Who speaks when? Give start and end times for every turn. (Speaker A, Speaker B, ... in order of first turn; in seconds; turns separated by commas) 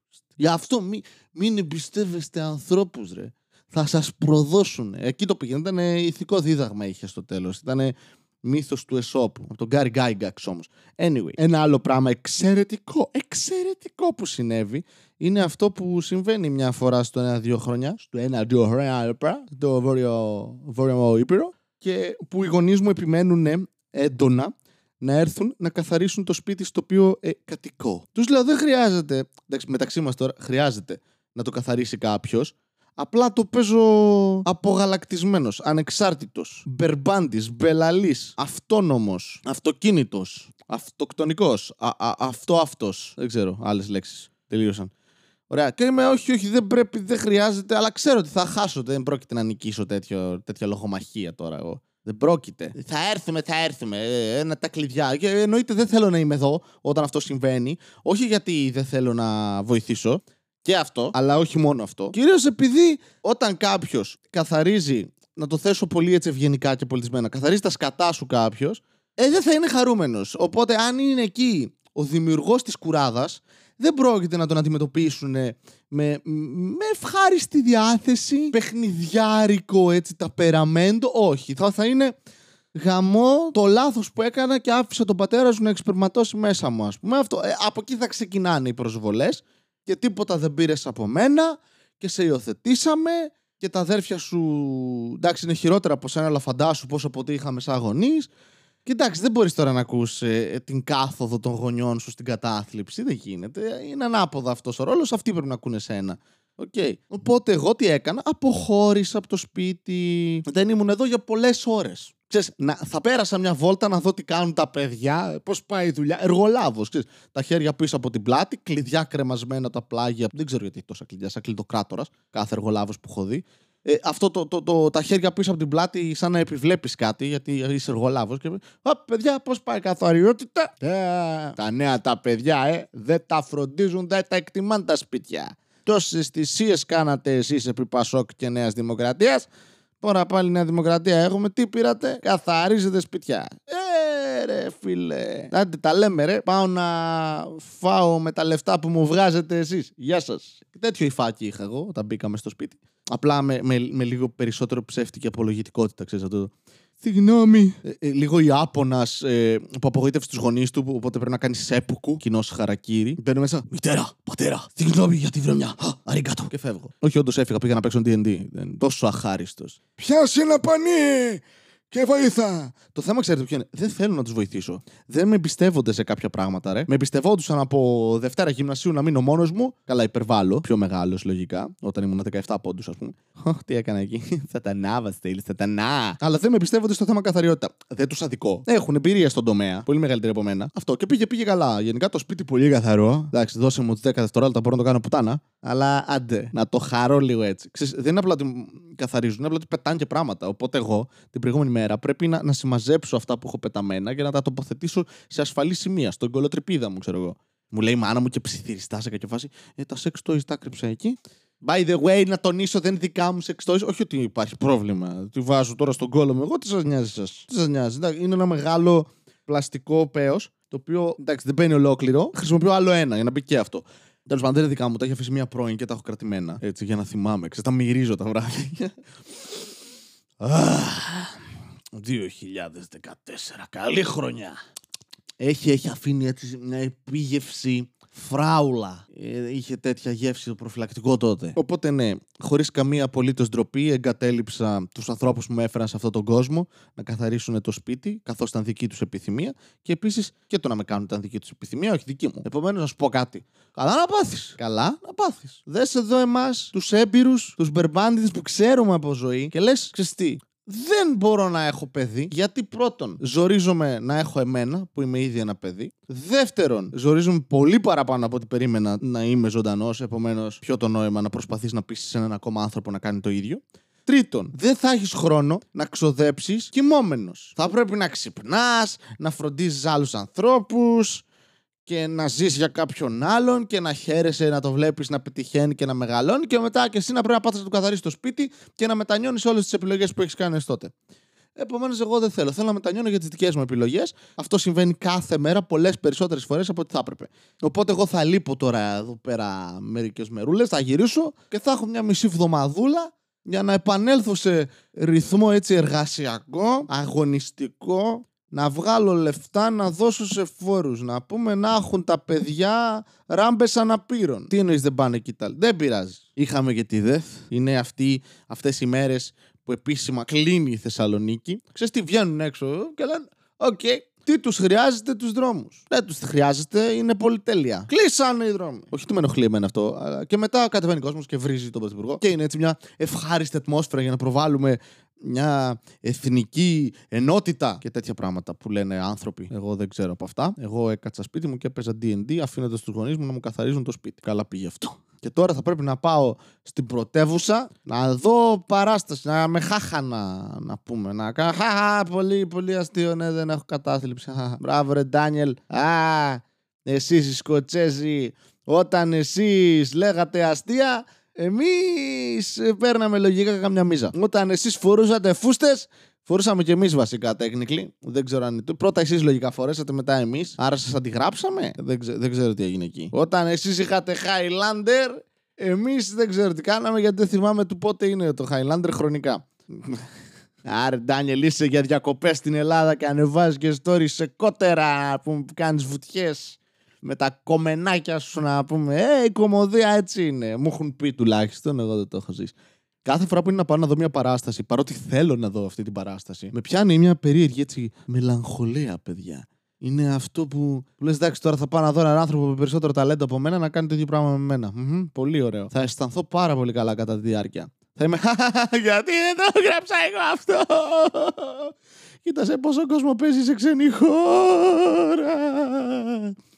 Speaker A: 0.4-44.9, Speaker A: 45.5-82.1, Speaker A: 82.8-98.3, Speaker A: 98.8-139.5, Speaker A: 140.0-228.9, Speaker A: 230.4-231.4, Speaker A: 231.9-234.6, Speaker A: 235.4-281.2, Speaker A: 281.9-290.9, Speaker A: 291.6-380.1, Speaker A: 380.7-416.4